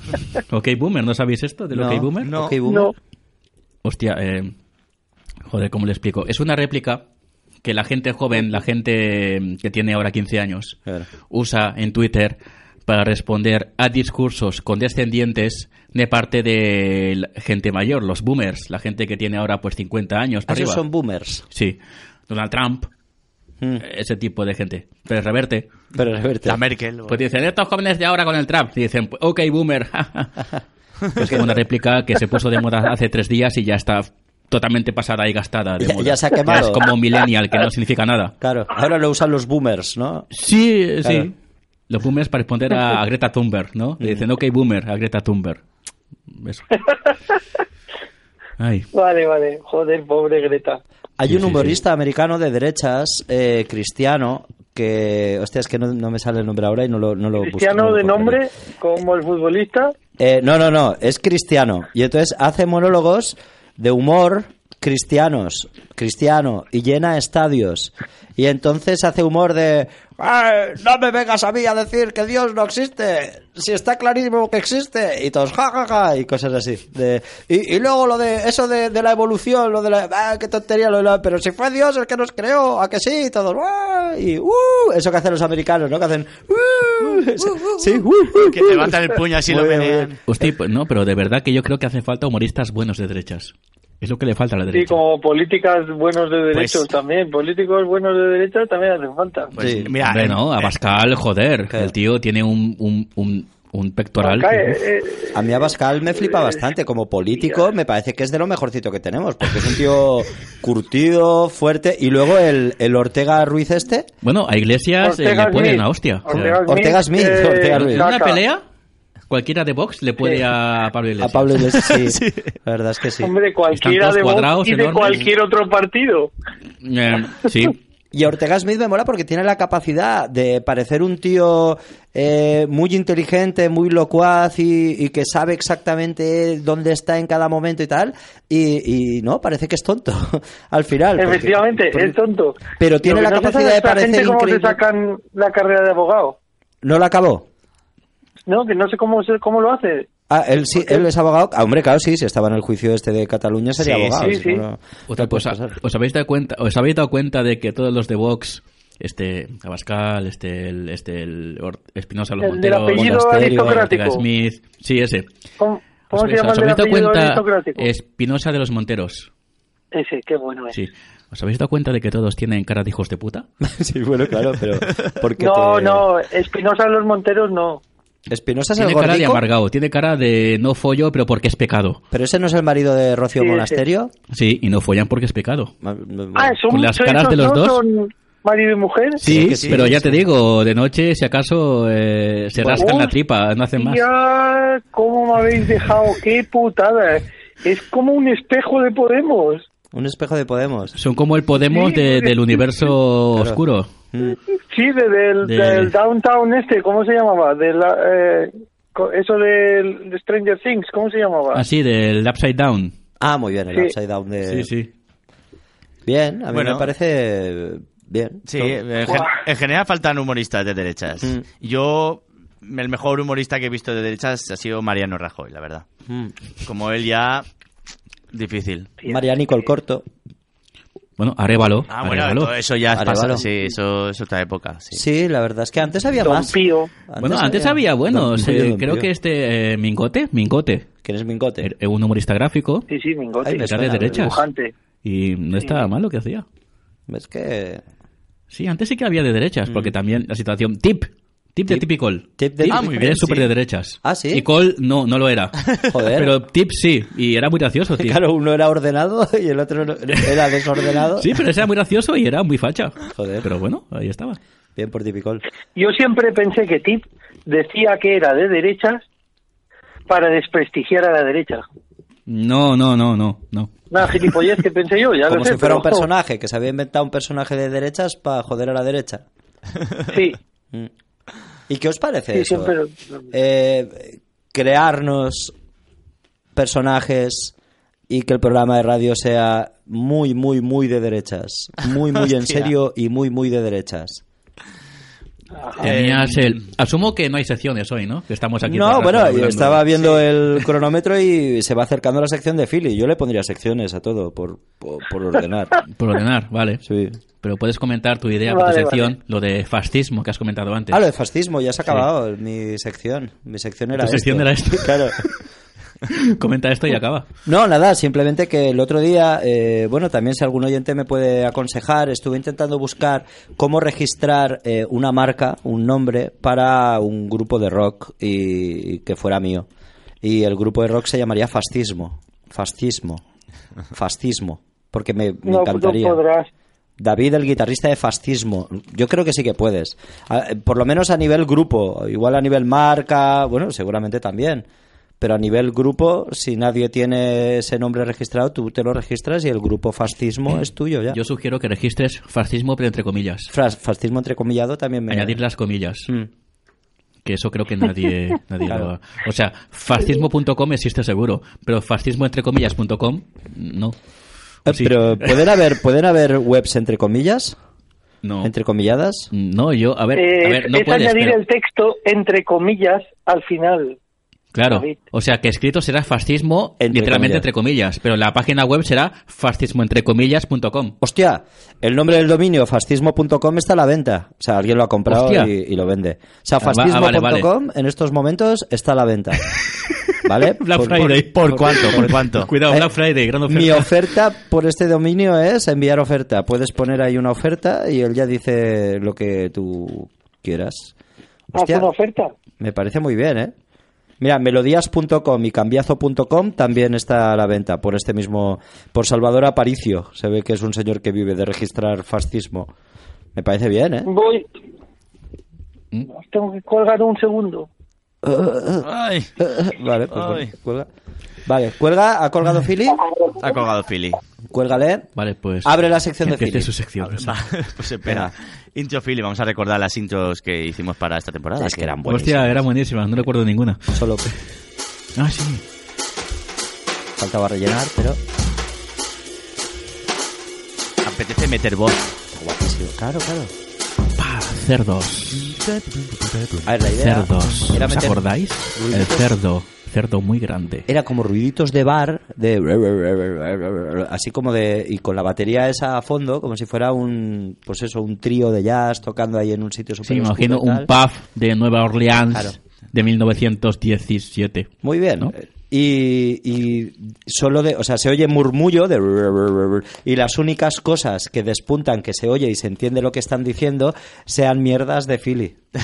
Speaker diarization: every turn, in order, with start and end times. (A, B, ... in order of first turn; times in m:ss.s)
0:00.5-0:02.3 A
0:01.7-0:02.9 B
0:02.2-0:02.6 C
0:02.6-0:02.9 D
0:03.8-0:04.5 A
0:05.5-0:07.0 A
0:07.6-0:10.8 A
0:11.3-0:20.8 A
0:20.5-0:21.5 B
0:21.5-0:22.9 A
0:23.8-0:25.7 A
0:26.0-0:26.6 B
0:26.4-0:27.2 C
0:27.1-0:30.3 A
0:31.2-0:31.6 B
0:31.2-0:38.3 A
0:35.8-0:36.9 B
0:38.4-0:40.3 B
0:40.3-0:41.3 A
0:41.0-0:41.3 B
0:41.9-0:45.6 A
0:44.0-0:44.3 B
0:46.3-0:46.9 A
0:48.6-0:48.9 A
0:48.9-0:50.8 D
0:51.2-0:58.4 B
0:51.3-0:51.8 A
0:57.4-0:59.9 D
1:00.2-1:30.5 B
1:28.3-1:30.2 C
1:30.3-1:35.0 A
1:34.7-1:39.5 D
1:36.5-1:36.9 C
1:39.5-1:40.8 C
1:39.6-1:39.9 B
1:39.8-1:44.8 A
1:44.2-1:46.6 D
1:45.3-1:54.1 B
1:47.4-1:47.6 D
1:54.2-1:56.6 A
1:55.0-1:58.4 D
1:56.7-1:58.1 B
1:57.7-1:58.6 A
1:59.3-2:02.1 A
2:01.2-2:03.3 B
2:03.2-2:06.3 D
2:03.7-2:05.2 A
2:06.8-2:07.8 A
2:08.1-2:22.2 B
2:21.2-2:26.4 D
2:22.8-2:24.8 B
2:26.8-2:27.5 B
2:28.5-2:30.1 D
2:30.3-2:35.8 B
2:30.7-2:31.1 D
2:33.8-2:34.3 C
2:34.2-2:34.6 D
2:35.1-2:45.3 A
2:42.4-2:44.2 D
2:42.9-2:43.9 B
2:45.6-2:47.9 D
2:46.1-2:49.3 A
2:49.9-2:50.8 D
2:50.7-2:53.5 A
2:53.6-2:56.1 B
2:55.4-2:57.8 D
2:58.3-2:59.4 B
2:58.8-3:02.0 A
3:02.1-3:04.1 B
3:03.4-3:03.8 D
3:04.3-3:05.7 A
3:05.8-3:06.6 B
3:06.4-3:09.2 D
3:06.7-3:07.8 A
3:09.2-3:14.0 A
3:09.2-3:10.2 B
3:09.3-3:09.9 C
3:12.6-3:12.9 B
3:12.8-3:13.2 D
3:13.8-3:19.6 D
3:19.9-3:21.0 B
3:21.0-3:23.9 A
3:21.7-3:22.4 D
3:23.4-3:23.6 B
3:24.1-3:24.4 B
3:24.7-3:31.6 D
3:25.4-3:25.9 A
3:31.5-3:33.0 A
3:33.2-3:34.7 B
3:34.4-3:34.9 A
3:36.1-3:38.8 B
3:36.5-3:36.9 C
3:38.5-3:45.8 C
3:46.1-3:46.4 B
3:46.6-3:47.5 C
3:48.3-3:48.9 C
3:49.0-3:50.0 B
3:51.2-3:52.5 A
3:51.9-3:55.0 C
3:52.9-3:53.4 B
3:54.9-3:59.1 B
3:56.2-3:56.9 D
3:57.2-4:00.9 A
4:01.0-4:01.7 B
4:01.6-4:02.9 A
4:02.9-4:04.7 D
4:03.4-4:04.4 B
4:03.6-4:04.4 A
4:05.0-4:06.4 A
4:07.1-4:07.8 B
4:08.5-4:18.2 A
4:09.7-4:09.9 B
4:11.7-4:13.2 B
4:12.7-4:13.5 C
4:14.0-4:14.5 B
4:15.9-4:16.4 B
4:18.0-4:21.4 B
4:21.2-4:24.4 A
4:23.1-4:23.5 B
4:24.8-4:25.4 B
4:25.8-4:29.0 D
4:30.1-4:31.7 D
4:32.3-4:33.7 A
4:33.9-4:36.1 D
4:35.3-4:39.2 B
4:40.1-4:40.4 D
4:41.7-4:42.8 B
4:42.3-4:43.0 D
4:43.3-4:45.5 B
4:46.6-4:47.5 B
4:48.1-4:54.2 B
4:52.2-4:52.7 C
4:55.6-4:55.9 D
4:55.8-4:59.9 A
4:55.8-4:56.7 C
4:58.6-5:05.8 B
5:05.9-5:06.8 A
5:06.8-5:07.2 B
5:07.4-5:11.0 A
5:08.5-5:09.1 D
5:10.9-5:15.2 B
5:14.0-5:15.3 A
5:16.3-5:17.3 A
5:17.5-5:29.7 B
5:30.2-5:33.2 B
5:33.9-5:36.2 B
5:35.5-5:36.5 D
5:37.0-5:44.7 B
5:45.2-5:51.2 B
5:51.1-5:53.5 A
5:53.5-5:55.4 B
5:55.1-5:56.1 A
5:57.2-6:04.0 A
5:58.7-5:58.9 B
6:04.7-6:05.4 A
6:04.7-6:07.6 B
6:08.2-6:08.5 A
6:08.4-6:09.3 B
6:09.3-6:11.4 A
6:10.2-6:14.0 D
6:14.5-6:21.0 A
6:14.7-6:15.0 D
6:16.8-6:17.5 B
6:21.0-6:29.5 B
6:25.1-6:25.5 A
6:26.6-6:27.5 A
6:30.2-6:32.9 B
6:30.6-6:33.9 A
6:31.0-6:32.5 C
6:33.5-6:40.9 B
6:41.5-6:41.9 B
6:41.5-6:42.3 D
6:42.6-6:43.5 B
6:44.2-6:52.7 B
6:53.4-6:54.1 B
6:54.1-6:54.5 D
6:56.1-6:57.7 D
6:58.2-7:00.9 B
6:58.8-6:59.3 C
7:00.1-7:00.5 C
7:01.5-7:03.0 B
7:03.4-7:04.2 C
7:04.5-7:05.1 B
7:05.2-7:05.7 A
7:05.6-7:06.7 B
7:06.3-7:07.4 A
7:07.0-7:12.0 C
7:08.0-7:08.3 B
7:11.6-7:12.6 B
7:12.0-7:14.0 A
7:13.9-7:14.3 B
7:15.2-7:15.6 A
7:17.2-7:18.2 B
7:21.0-7:22.1 C
7:22.3-7:23.5 B
7:24.2-7:25.6 A
7:26.6-7:29.4 B
7:26.9-7:30.9 A
7:30.9-7:40.9 B
7:40.0-7:45.3 A
7:44.8-7:55.6 B